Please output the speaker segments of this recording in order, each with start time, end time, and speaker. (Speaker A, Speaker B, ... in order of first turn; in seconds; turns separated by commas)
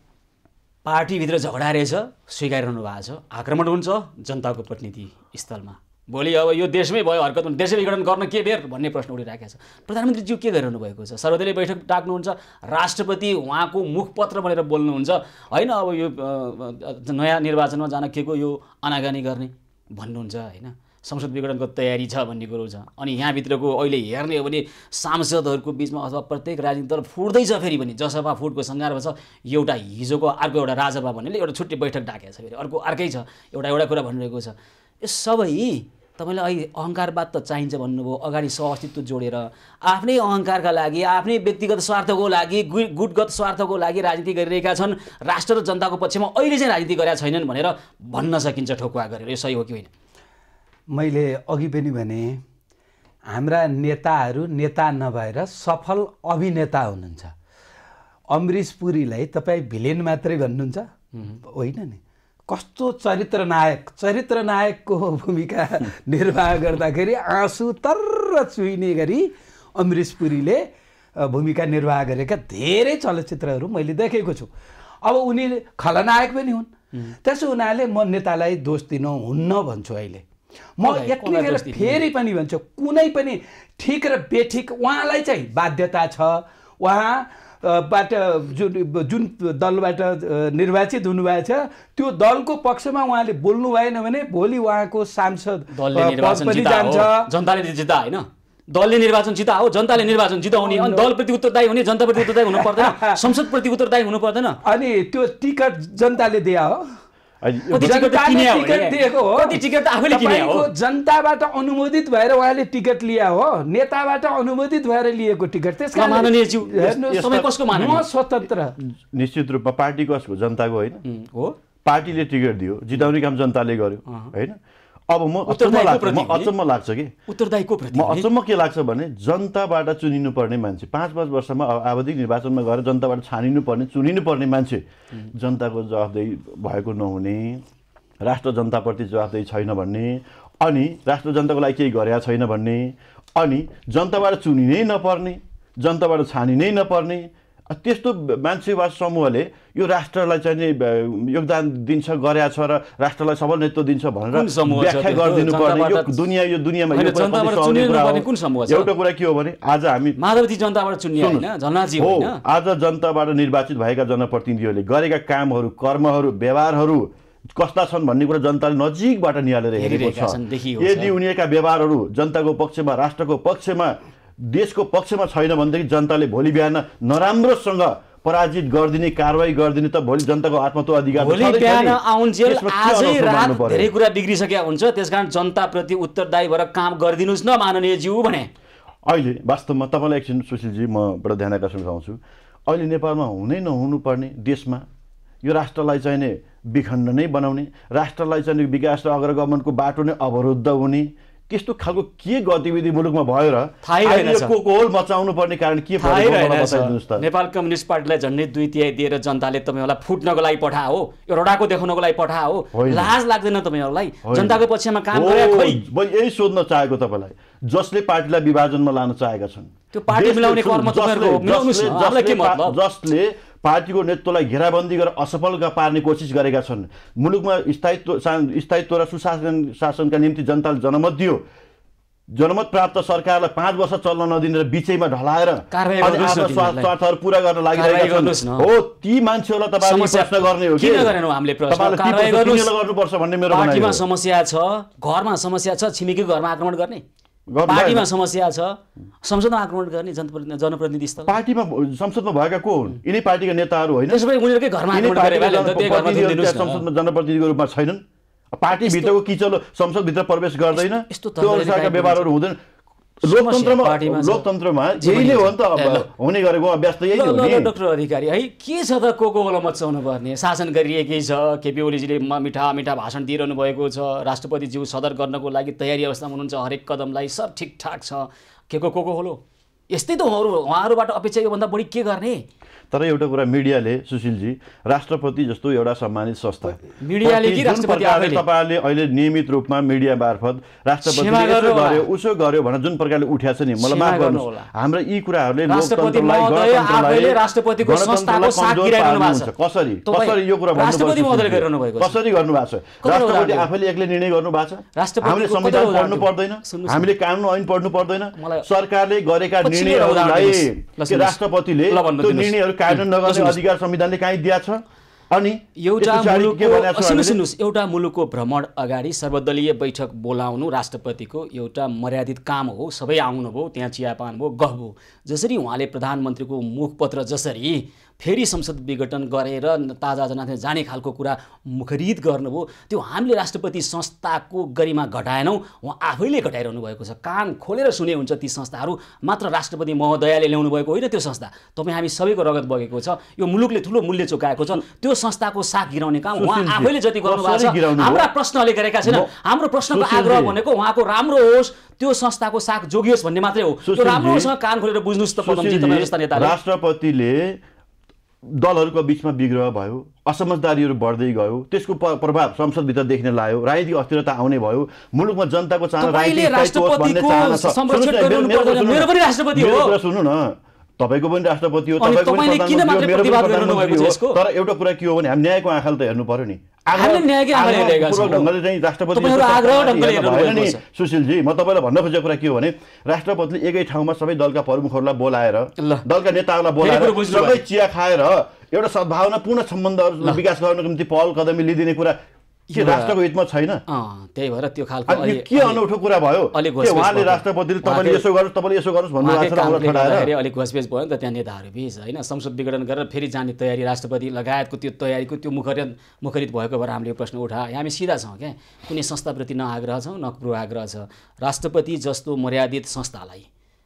Speaker A: 0.8-49.9, Speaker B: 50.9-52.4, Speaker B: 53.3-57.3, Speaker B: 58.3-70.7, Speaker B: 71.2-74.5, Speaker B: 75.0-76.7, Speaker B: 77.2-80.2, Speaker B: 80.8-97.3, Speaker A: 80.8-82.0, Speaker A: 95.7-104.6, Speaker B: 100.6-101.1, Speaker B: 102.2-103.4, Speaker B: 104.6-107.0, Speaker C: 107.4-108.0, Speaker A: 107.7-110.7, Speaker B: 107.7-118.8, Speaker A: 115.9-118.1, Speaker C: 117.1-117.5, Speaker C: 119.1-121.0, Speaker A: 121.0-121.6, Speaker C: 121.8-124.6, Speaker C: 125.1-127.1, Speaker A: 125.5-126.5, Speaker A: 127.3-128.3, Speaker C: 127.9-137.6, Speaker C: 138.2-160.2, Speaker A: 154.3-156.2, Speaker A: 156.9-158.9, Speaker A: 160.2-162.4, Speaker C: 161.2-183.9, Speaker A: 169.8-171.1, Speaker A: 181.2-188.5, Speaker C: 189.1-194.9, Speaker C: 195.4-207.2, Speaker A: 203.8-204.6, Speaker A: 206.0-215.8, Speaker C: 212.7-213.1, Speaker C: 214.3-231.4, Speaker A: 219.9-222.8, Speaker C: 232.3-241.2, Speaker A: 235.7-236.9, Speaker A: 237.7-238.7, Speaker A: 239.8-242.7, Speaker C: 241.7-244.0, Speaker A: 243.5-247.0, Speaker C: 247.5-248.1, Speaker A: 247.7-251.3, Speaker C: 251.2-254.2, Speaker A: 254.1-256.9, Speaker C: 254.9-258.0, Speaker C: 258.5-262.6, Speaker A: 258.8-259.2, Speaker A: 260.8-262.3, Speaker C: 263.2-267.7, Speaker A: 263.2-264.5, Speaker A: 265.0-266.1, Speaker A: 267.1-282.4, Speaker C: 282.9-317.4, Speaker A: 287.0-288.4, Speaker A: 291.0-292.1, Speaker A: 293.8-294.7, Speaker A: 295.7-299.5, Speaker A: 300.1-302.2, Speaker A: 303.0-303.7, Speaker A: 305.0-307.1, Speaker A: 308.4-308.6, Speaker A: 309.6-313.6, Speaker A: 315.8-356.5, Speaker C: 346.4-348.3, Speaker C: 349.1-349.3, Speaker C: 349.9-350.6, Speaker C: 353.9-354.5, Speaker C: 355.4-357.6, Speaker C: 358.4-392.2, Speaker A: 366.0-370.0, Speaker A: 372.0-374.4, Speaker A: 376.9-378.5, Speaker A: 379.1-380.8, Speaker A: 385.8-386.0, Speaker A: 386.8-387.6, Speaker A: 392.7-393.2, Speaker C: 392.7-393.8, Speaker A: 393.9-395.8, Speaker C: 395.1-400.3, Speaker A: 396.5-398.2, Speaker A: 399.2-413.5